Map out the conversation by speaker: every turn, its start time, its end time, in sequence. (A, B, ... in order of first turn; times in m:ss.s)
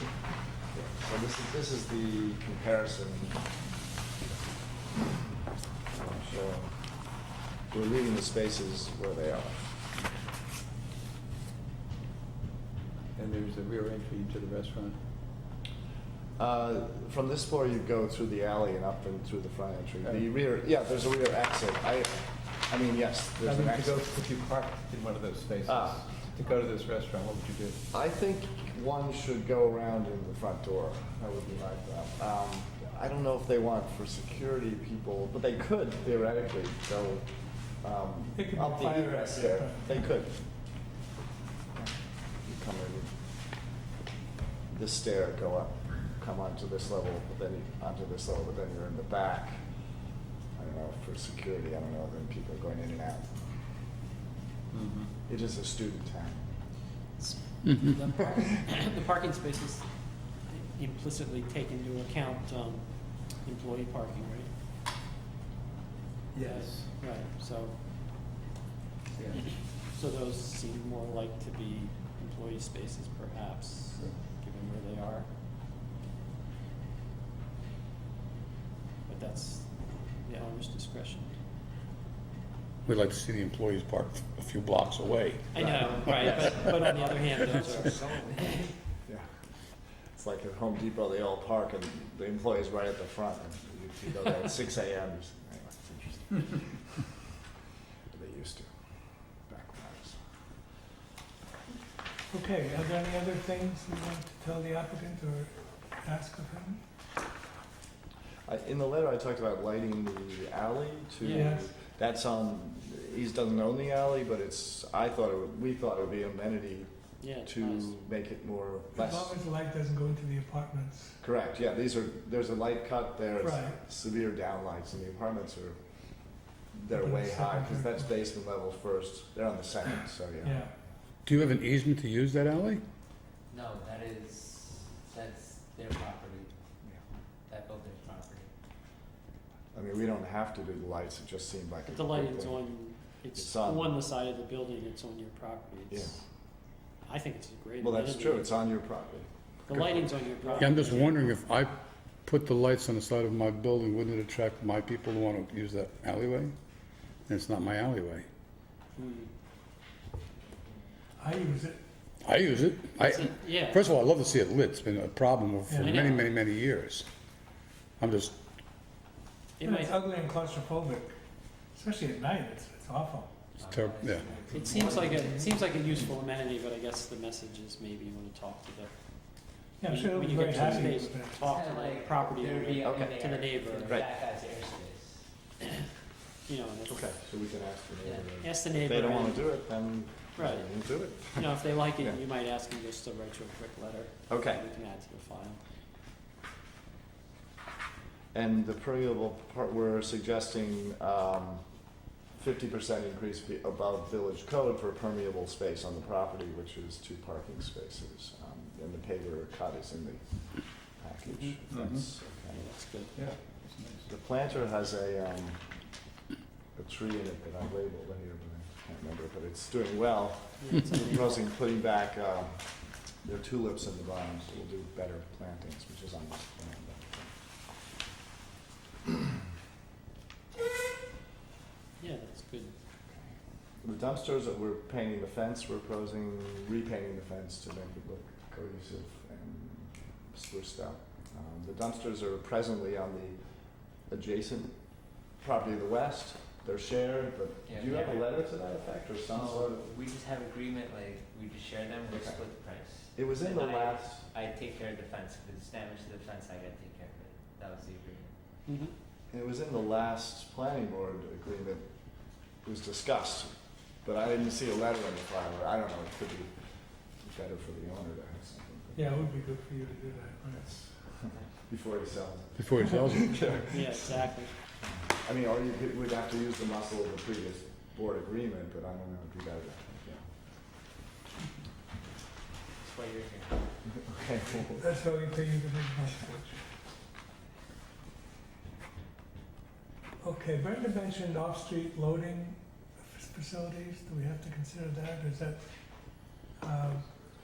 0:00.7-0:03.4 A
0:05.9-0:07.1 A
0:07.7-0:09.8 A
0:13.2-0:15.0 B
0:16.4-0:24.1 A
0:23.4-0:27.8 B
0:25.7-0:26.0 A
0:27.9-0:40.5 A
0:38.4-0:40.1 C
0:41.8-0:43.1 A
0:44.7-0:49.6 A
0:50.6-0:53.4 A
0:54.7-0:55.1 B
0:55.3-0:56.5 A
0:57.2-1:04.5 D
1:06.3-1:06.9 B
1:06.4-1:07.8 D
1:09.2-1:09.5 B
1:09.3-1:15.3 D
1:19.1-1:21.4 D
1:22.9-1:26.4 E
1:25.5-1:28.6 D
1:25.6-1:26.5 A
1:26.0-1:28.7 F
1:30.1-1:37.1 A
1:38.1-1:38.7 A
1:39.4-1:40.2 A
1:42.3-1:46.8 C
1:48.5-1:59.3 A
1:51.2-1:51.6 D
1:51.3-1:51.7 C
1:57.2-1:58.0 D
1:59.0-2:01.2 C
2:01.2-2:05.8 A
2:03.4-2:03.8 C
2:06.7-2:10.7 A
2:06.9-2:08.1 C
2:10.4-2:10.7 C
2:11.3-2:12.8 E
2:13.5-2:16.5 F
2:17.5-2:18.5 F
2:19.7-2:24.0 A
2:21.9-2:26.2 D
2:25.9-2:26.2 A
2:27.1-2:28.5 D
2:27.8-2:30.6 A
2:29.7-2:31.3 D
2:30.6-2:31.7 E
2:32.2-2:36.5 E
2:37.3-2:38.3 E
2:39.0-2:39.3 D
2:41.2-2:41.8 C
2:42.2-2:47.1 E
2:43.0-2:43.8 D
2:45.7-2:45.9 C
2:45.8-2:46.3 D
2:48.0-2:48.3 E
2:49.6-2:50.0 D
2:49.6-2:51.2 C
2:51.7-2:53.3 C
2:53.6-2:55.7 F
2:53.6-2:54.8 E
2:54.5-3:04.0 D
2:59.8-3:01.5 C
3:00.5-3:00.8 A
3:01.4-3:05.3 F
3:02.8-3:03.2 A
3:03.8-3:04.1 A
3:06.5-3:07.1 D
3:06.9-3:12.2 A
3:08.0-3:08.3 F
3:08.4-3:09.6 D
3:10.4-3:15.6 D
3:14.3-3:14.6 A
3:18.3-3:21.6 A
3:22.3-3:33.0 A
3:31.3-3:31.6 D
3:31.7-3:32.1 B
3:32.6-3:33.1 D
3:33.2-3:34.1 B
3:34.1-3:35.6 A
3:36.8-3:47.4 A
3:40.6-3:41.5 D
3:52.0-3:52.8 D
3:53.8-4:09.8 A
4:07.7-4:08.3 F
4:09.3-4:18.3 F
4:12.1-4:12.4 A
4:13.1-4:14.2 A
4:18.7-4:18.9 D
4:19.3-4:21.9 A
4:22.6-4:26.5 A
4:27.2-4:29.3 A
4:28.9-4:30.6 C
4:30.6-4:34.4 A
4:32.6-4:33.5 E
4:33.7-4:34.5 D
4:34.9-4:40.2 A
4:42.8-4:43.7 F
4:44.1-4:44.9 A
4:44.8-4:46.6 C
4:50.2-4:57.1 C